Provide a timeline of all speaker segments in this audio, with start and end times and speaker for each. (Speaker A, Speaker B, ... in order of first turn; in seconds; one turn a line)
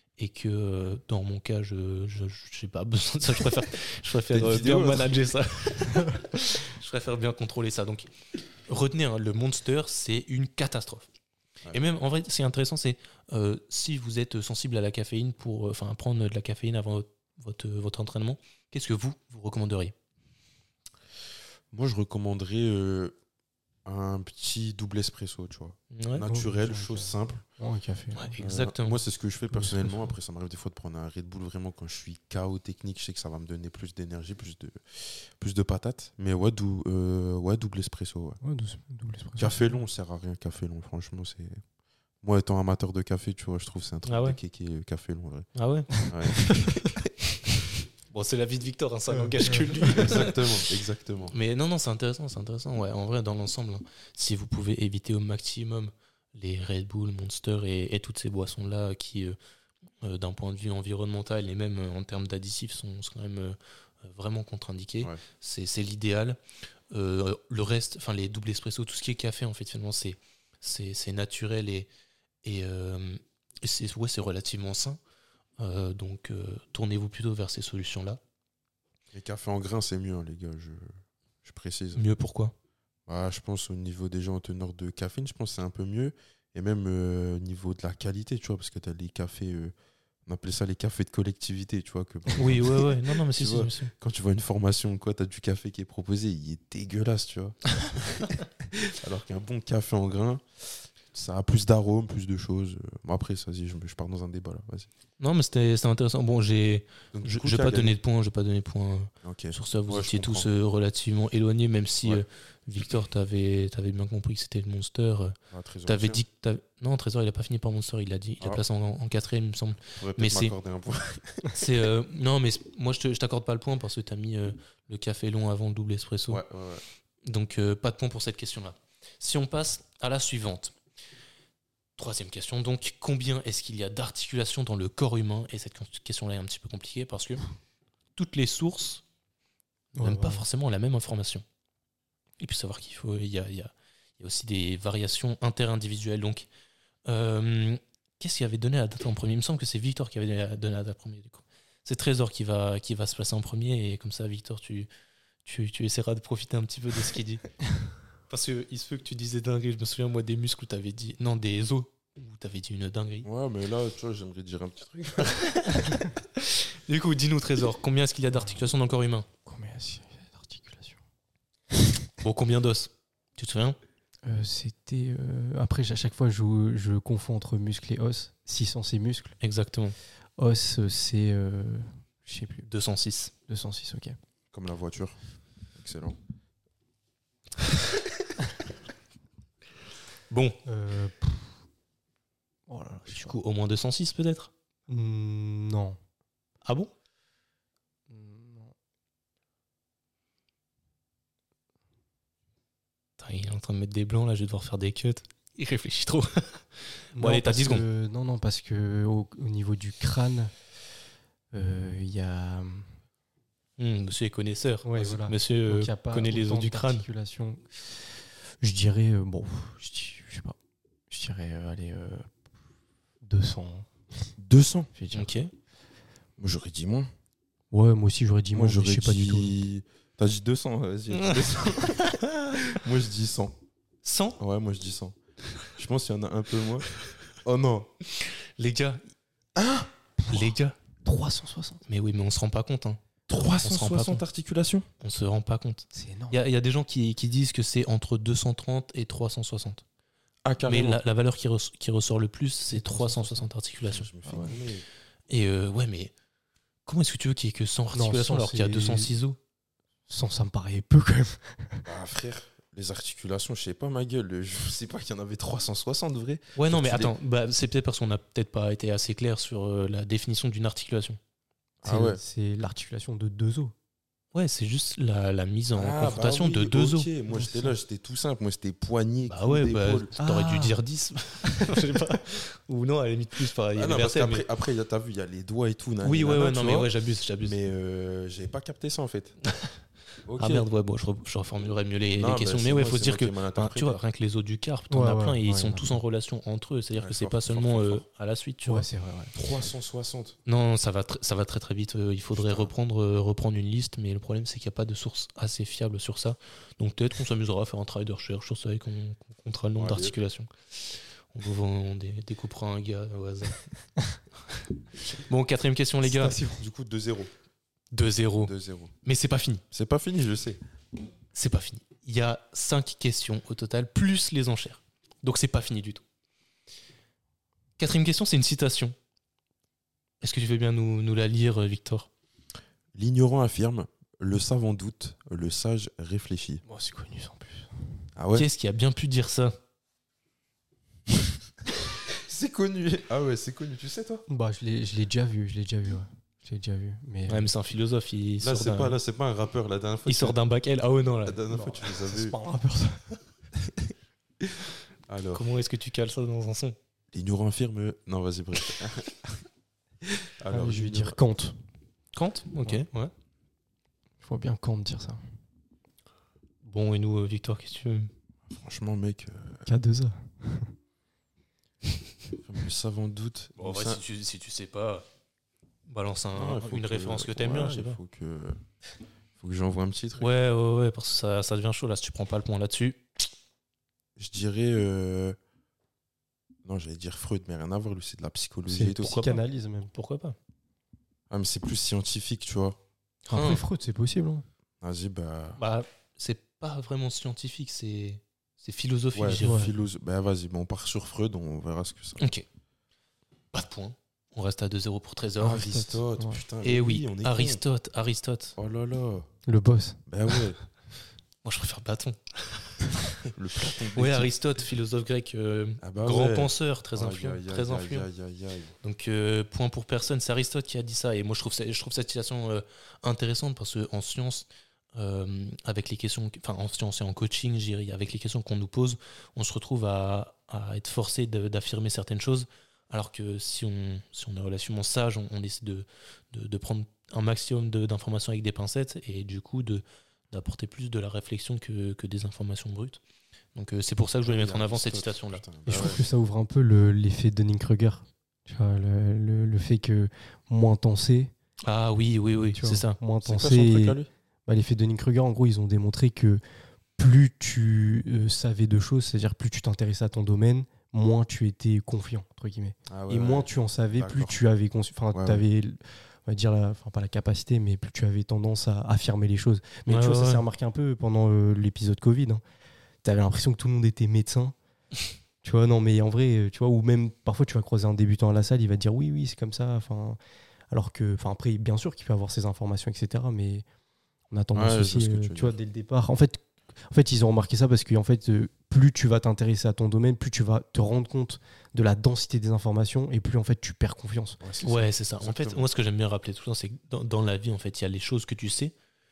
Speaker A: 0.2-8.1
Speaker B: 4.3-5.2
Speaker A: 8.7-11.1
Speaker A: 11.7-19.9
Speaker B: 21.7-23.1
Speaker B: 23.8-27.4
Speaker A: 25.9-26.2
Speaker C: 26.2-28.3
Speaker A: 28.1-29.0
Speaker B: 28.4-38.4
Speaker C: 29.5-30.1
Speaker C: 38.4-39.8
Speaker B: 39.4-41.6
Speaker B: 42.2-45.5
Speaker A: 44.0-44.4
Speaker A: 45.5-46.1
Speaker B: 46.1-47.1
Speaker C: 46.4-46.6
Speaker A: 48.1-50.5
Speaker C: 49.1-50.1
Speaker B: 49.8-51.3
Speaker A: 51.3-59.4
Speaker A: 60.0-66.4
Speaker A: 66.9-71.9
Speaker A: 72.4-75.0
Speaker A: 75.6-78.2
Speaker B: 79.1-82.0
Speaker A: 82.0-82.5
Speaker B: 83.1-89.7
Speaker B: 90.2-104.9
Speaker A: 92.3-93.9
Speaker A: 105.2-120.5
Speaker B: 107.1-108.0
Speaker B: 109.2-110.5
Speaker B: 115.5-116.2
Speaker B: 120.0-121.5
Speaker A: 121.5-126.4
Speaker B: 126.3-126.8
Speaker A: 127.2-130.8
Speaker A: 132.0-137.4
Speaker A: 138.2-139.0
Speaker C: 140.0-140.4
Speaker A: 140.0-141.4
Speaker A: 142.4-146.5
Speaker A: 147.1-154.9
Speaker A: 155.4-157.5
Speaker A: 158.3-163.3
Speaker B: 163.2-165.6
Speaker A: 165.3-169.3
Speaker C: 168.3-168.6
Speaker C: 169.4-171.0
Speaker A: 172.2-173.8
Speaker C: 174.2-179.3
Speaker A: 179.4-179.9
Speaker C: 180.4-182.7
Speaker A: 182.7-183.3
Speaker C: 183.5-184.2
Speaker B: 184.5-185.2
Speaker B: 185.8-186.2
Speaker A: 190.3-190.6
Speaker C: 190.7-191.5
Speaker C: 192.7-193.3
Speaker A: 193.1-194.5
Speaker C: 194.9-196.0
Speaker A: 196.6-196.9
Speaker C: 198.1-198.7
Speaker A: 203.2-207.8
Speaker C: 207.1-210.5
Speaker C: 211.5-212.9
Speaker A: 213.8-217.0
Speaker C: 214.8-218.0
Speaker C: 218.6-220.6
Speaker C: 221.1-222.3
Speaker C: 223.2-224.3
Speaker B: 224.4-224.9
Speaker C: 224.9-225.3
Speaker A: 225.1-225.5
Speaker B: 226.4-227.1
Speaker C: 227.7-229.5
Speaker B: 228.5-233.5
Speaker A: 231.1-232.6
Speaker A: 234.0-234.4
Speaker B: 234.4-235.2
Speaker B: 235.8-237.9
Speaker A: 238.2-239.0
Speaker B: 239.6-239.9
Speaker A: 240.3-240.8
Speaker C: 241.0-241.8
Speaker A: 241.9-244.2
Speaker B: 243.3-244.9
Speaker A: 245.0-249.8
Speaker C: 245.9-246.4
Speaker B: 250.4-251.0
Speaker A: 250.7-254.1
Speaker C: 252.7-253.5
Speaker B: 253.8-254.8
Speaker C: 254.2-254.6
Speaker A: 255.3-256.1
Speaker A: 256.9-259.4
Speaker C: 257.9-259.1
Speaker C: 260.1-261.9
Speaker B: 261.9-267.1
Speaker A: 266.6-271.2
Speaker B: 271.8-272.2
Speaker C: 271.8-273.7
Speaker A: 274.3-277.1
Speaker B: 275.8-280.2
Speaker C: 277.3-277.7
Speaker A: 279.3-284.4
Speaker C: 280.2-280.8
Speaker C: 281.6-281.9
Speaker B: 283.8-286.9
Speaker A: 286.0-287.6
Speaker B: 287.4-289.4
Speaker B: 290.2-290.7
Speaker A: 290.4-298.9
Speaker B: 292.1-294.0
Speaker C: 294.9-296.0
Speaker B: 297.0-298.0
Speaker C: 298.6-299.3
Speaker B: 299.3-300.4
Speaker A: 300.4-313.7
Speaker B: 302.3-302.7
Speaker B: 309.8-310.1
Speaker A: 315.0-316.4
Speaker C: 316.1-316.6
Speaker B: 316.5-317.3
Speaker A: 317.9-319.6
Speaker B: 318.4-318.9
Speaker B: 319.7-320.6
Speaker A: 321.3-326.0
Speaker A: 327.8-328.9
Speaker A: 330.2-332.1
Speaker B: 332.9-336.6
Speaker C: 336.6-337.7
Speaker B: 338.1-338.5
Speaker A: 338.3-339.6
Speaker B: 342.1-344.2
Speaker C: 344.3-347.5
Speaker A: 347.3-349.0
Speaker B: 348.4-350.4
Speaker A: 350.1-351.4
Speaker B: 351.2-352.4
Speaker C: 351.5-353.2
Speaker B: 353.6-355.4
Speaker A: 355.3-356.8
Speaker B: 357.1-359.4
Speaker B: 360.4-361.2
Speaker C: 360.5-361.6
Speaker A: 362.1-363.1
Speaker C: 364.2-365.2
Speaker A: 366.6-368.1
Speaker B: 368.5-369.7
Speaker C: 369.6-370.7
Speaker B: 372.3-374.0
Speaker A: 373.6-375.0
Speaker A: 375.9-378.0
Speaker B: 376.3-378.6
Speaker B: 379.4-380.3
Speaker A: 380.2-383.0
Speaker B: 384.2-385.4
Speaker B: 386.6-389.3
Speaker C: 388.7-389.9
Speaker A: 389.0-389.4
Speaker A: 389.9-390.4
Speaker B: 391.3-392.8
Speaker A: 393.3-393.6
Speaker C: 393.3-394.4
Speaker B: 394.8-395.6
Speaker A: 395.6-399.7
Speaker B: 399.1-402.2
Speaker C: 399.4-399.7
Speaker A: 402.2-402.4
Speaker A: 403.5-405.8
Speaker B: 405.4-407.6
Speaker C: 405.6-406.4
Speaker A: 406.6-408.6
Speaker B: 408.6-409.3
Speaker C: 409.5-410.0
Speaker B: 410.1-410.6
Speaker A: 411.4-412.9
Speaker B: 413.3-414.3
Speaker A: 413.9-418.1
Speaker B: 415.8-418.7
Speaker A: 418.8-443.0
Speaker A: 443.5-445.9
Speaker B: 444.2-446.0
Speaker C: 445.6-451.3
Speaker A: 451.6-453.0
Speaker C: 452.5-456.4
Speaker B: 453.2-454.1
Speaker C: 457.0-472.4
Speaker B: 462.9-464.4
Speaker B: 465.1-465.4
Speaker A: 469.9-470.4
Speaker C: 473.0-474.5
Speaker C: 475.4-480.2
Speaker C: 480.7-483.6
Speaker C: 484.3-494.4
Speaker B: 484.5-485.6
Speaker B: 494.4-495.6
Speaker A: 494.6-498.7